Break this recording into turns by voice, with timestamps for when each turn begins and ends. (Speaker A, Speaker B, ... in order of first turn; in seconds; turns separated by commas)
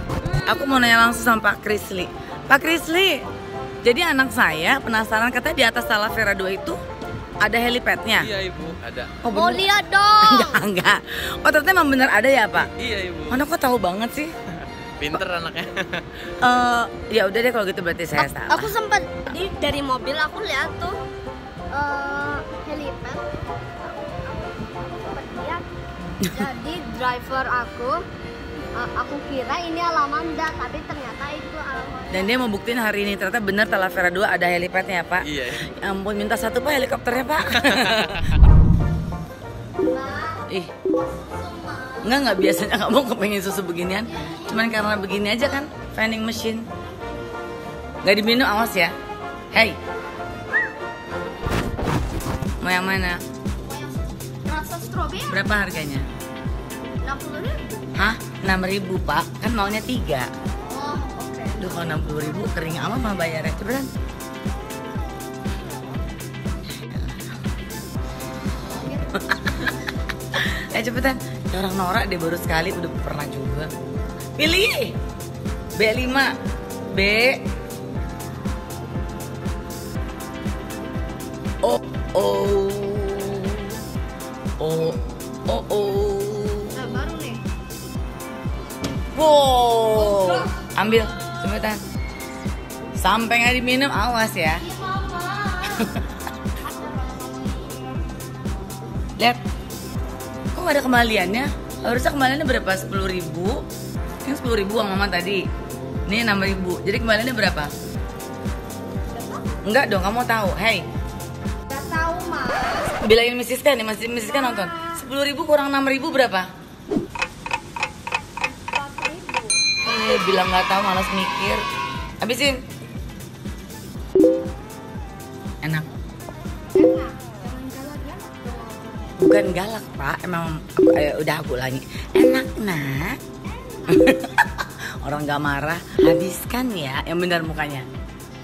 Speaker A: 0.2-0.8, Speaker B: 0.4-3.2, Speaker B: 3.8-6.8, Speaker B: 7.4-8.3, Speaker C: 8.2-9.1, Speaker B: 9.2-9.7, Speaker A: 9.3-10.6, Speaker B: 10.2-12.7, Speaker C: 12.8-13.4, Speaker B: 13.3-14.3, Speaker C: 15.0-16.3, Speaker B: 16.4-18.7, Speaker A: 18.2-21.0, Speaker A: 21.7-25.6, Speaker A: 26.3-28.0, Speaker A: 28.8-32.4, Speaker B: 32.1-38.3, Speaker C: 35.2-35.6, Speaker A: 39.8-42.2, Speaker B: 42.0-46.7, Speaker A: 44.1-44.7, Speaker B: 48.0-48.9, Speaker B: 49.5-49.8, Speaker B: 52.6-53.2, Speaker A: 53.6-55.4, Speaker B: 55.2-56.1, Speaker A: 57.0-57.9, Speaker B: 58.0-60.3, Speaker A: 60.6-62.0, Speaker B: 61.6-63.9, Speaker B: 66.8-67.4, Speaker A: 68.7-69.0, Speaker B: 68.9-73.7, Speaker B: 74.4-75.0, Speaker B: 75.8-76.3, Speaker B: 76.9-77.4, Speaker B: 81.6-83.8, Speaker B: 84.6-86.8, Speaker A: 86.7-87.4, Speaker B: 89.1-91.8, Speaker A: 90.0-90.5, Speaker B: 93.0-94.6, Speaker A: 94.6-96.0, Speaker B: 95.6-96.0, Speaker A: 96.6-97.8, Speaker B: 100.5-103.6, Speaker B: 104.2-105.4, Speaker B: 106.1-107.7, Speaker A: 109.1-109.6, Speaker B: 109.7-110.8, Speaker A: 111.7-113.0, Speaker B: 113.0-116.5, Speaker A: 114.1-115.0, Speaker A: 118.5-119.8, Speaker B: 119.8-121.6, Speaker B: 122.2-122.6, Speaker A: 126.8-129.2, Speaker B: 129.2-133.2, Speaker A: 133.5-134.3, Speaker B: 133.9-137.9